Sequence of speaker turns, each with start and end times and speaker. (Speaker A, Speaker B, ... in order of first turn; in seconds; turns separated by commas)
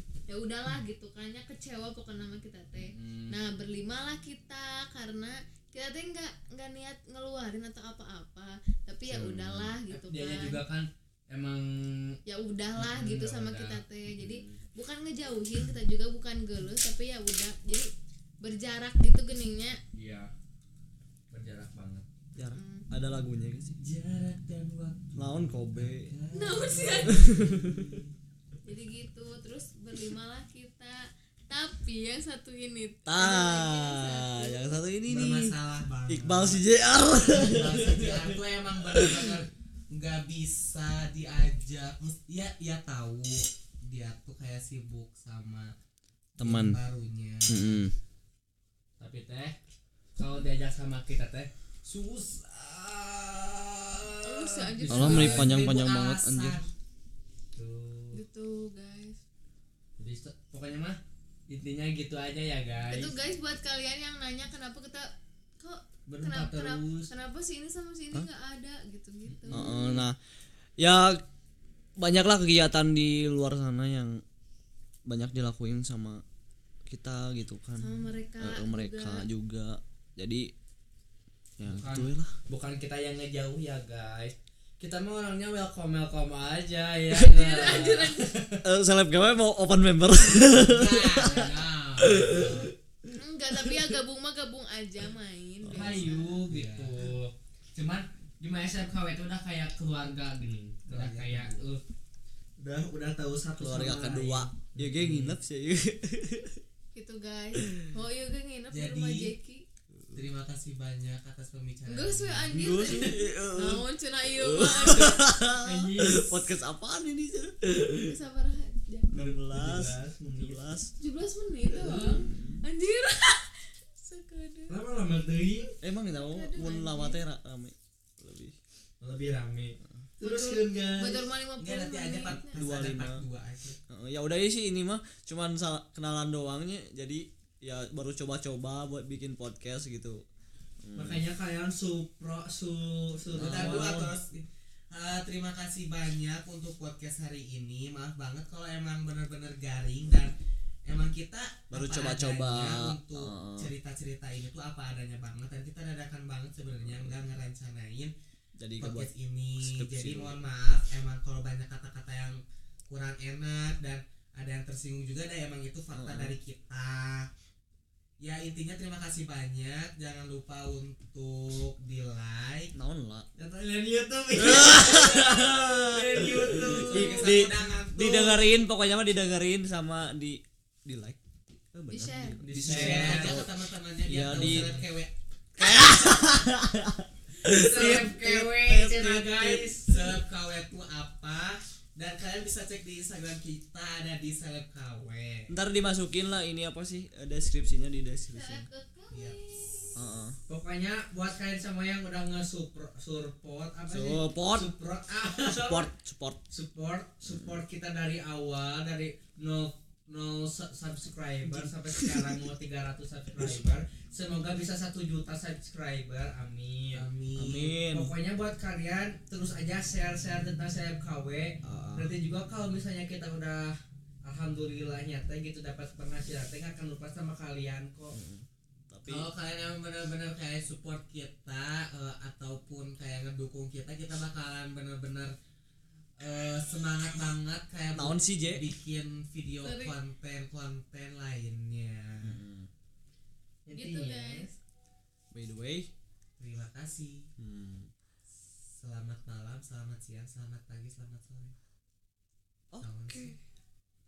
Speaker A: 0.3-10.6, Speaker B: 2.9-3.4, Speaker C: 9.1-9.7, Speaker B: 9.9-12.2, Speaker A: 12.3-17.9, Speaker B: 12.8-14.6, Speaker A: 18.4-19.8, Speaker B: 19.9-20.3, Speaker B: 21.3-22.1, Speaker C: 22.4-23.8, Speaker A: 22.5-22.9, Speaker D: 23.8-28.1, Speaker C: 25.2-26.1, Speaker A: 26.3-27.2, Speaker C: 27.1-27.7, Speaker A: 28.6-34.8, Speaker C: 33.1-35.5, Speaker D: 35.1-36.6, Speaker C: 36.1-39.4, Speaker D: 37.3-45.7, Speaker D: 46.4-47.9, Speaker C: 46.4-46.8, Speaker C: 47.5-47.9, Speaker B: 49.0-49.6, Speaker B: 50.2-55.7, Speaker A: 54.2-55.4, Speaker C: 54.9-56.6, Speaker D: 54.9-56.7, Speaker B: 57.5-58.2, Speaker A: 58.1-59.2, Speaker B: 60.0-63.1, Speaker A: 62.9-65.1, Speaker A: 65.6-69.7, Speaker B: 66.1-67.1, Speaker B: 69.3-70.0, Speaker C: 69.5-70.2, Speaker C: 70.8-71.2, Speaker C: 72.0-74.2, Speaker C: 75.1-76.2, Speaker C: 76.9-80.5, Speaker A: 77.8-79.3, Speaker C: 81.6-82.3, Speaker B: 81.6-88.5, Speaker C: 87.1-87.6, Speaker A: 87.3-88.3, Speaker C: 88.6-91.5, Speaker D: 90.6-92.7, Speaker B: 91.2-92.5, Speaker C: 92.0-92.7, Speaker A: 93.1-96.4, Speaker C: 95.6-96.1, Speaker B: 95.7-101.8, Speaker D: 96.5-97.1, Speaker D: 100.9-101.7, Speaker B: 102.6-105.4, Speaker C: 103.6-106.6, Speaker A: 106.9-109.7, Speaker D: 108.7-109.3, Speaker D: 110.2-112.6, Speaker A: 111.9-115.4, Speaker C: 112.5-118.2, Speaker B: 115.5-116.5, Speaker A: 118.1-119.3, Speaker C: 119.1-120.9, Speaker B: 119.2-120.8, Speaker A: 121.0-124.8, Speaker B: 121.7-122.0, Speaker C: 122.0-122.6, Speaker B: 124.7-125.8, Speaker C: 125.8-128.6, Speaker A: 126.1-127.2, Speaker B: 129.0-131.2, Speaker A: 130.2-132.6, Speaker D: 131.6-133.8, Speaker C: 132.5-133.2, Speaker C: 133.9-140.2, Speaker C: 140.8-141.2, Speaker B: 140.9-144.1, Speaker D: 143.3-150.3, Speaker C: 143.4-144.1, Speaker D: 150.8-158.1, Speaker C: 151.7-153.7, Speaker C: 156.9-157.2, Speaker C: 158.6-160.4, Speaker D: 158.8-167.3, Speaker C: 165.9-166.4, Speaker D: 168.2-172.7, Speaker C: 172.8-173.3, Speaker B: 173.4-177.4, Speaker C: 174.4-181.2, Speaker D: 176.2-178.6, Speaker C: 181.7-183.5, Speaker A: 181.9-182.4, Speaker B: 182.4-183.5, Speaker D: 182.5-185.1, Speaker C: 184.0-184.8, Speaker B: 184.3-184.8, Speaker C: 185.6-190.1, Speaker B: 187.4-189.4, Speaker D: 189.0-195.5, Speaker C: 195.5-198.7, Speaker A: 198.3-200.0, Speaker D: 199.1-199.4, Speaker C: 200.0-200.4, Speaker B: 200.5-205.9, Speaker C: 203.9-204.7, Speaker C: 205.5-206.4, Speaker B: 206.5-228.2, Speaker C: 207.2-207.6, Speaker C: 211.4-212.2, Speaker D: 216.9-217.7, Speaker C: 217.4-218.1, Speaker C: 221.6-222.1, Speaker C: 228.1-229.3, Speaker D: 229.1-235.3, Speaker D: 236.2-242.4, Speaker C: 237.9-238.6, Speaker A: 239.6-240.0, Speaker C: 242.2-242.7, Speaker B: 243.7-244.5, Speaker A: 243.7-244.5, Speaker C: 245.3-245.9, Speaker D: 246.4-247.3, Speaker C: 247.4-247.9, Speaker D: 248.4-251.5, Speaker C: 252.7-253.4, Speaker D: 252.8-253.3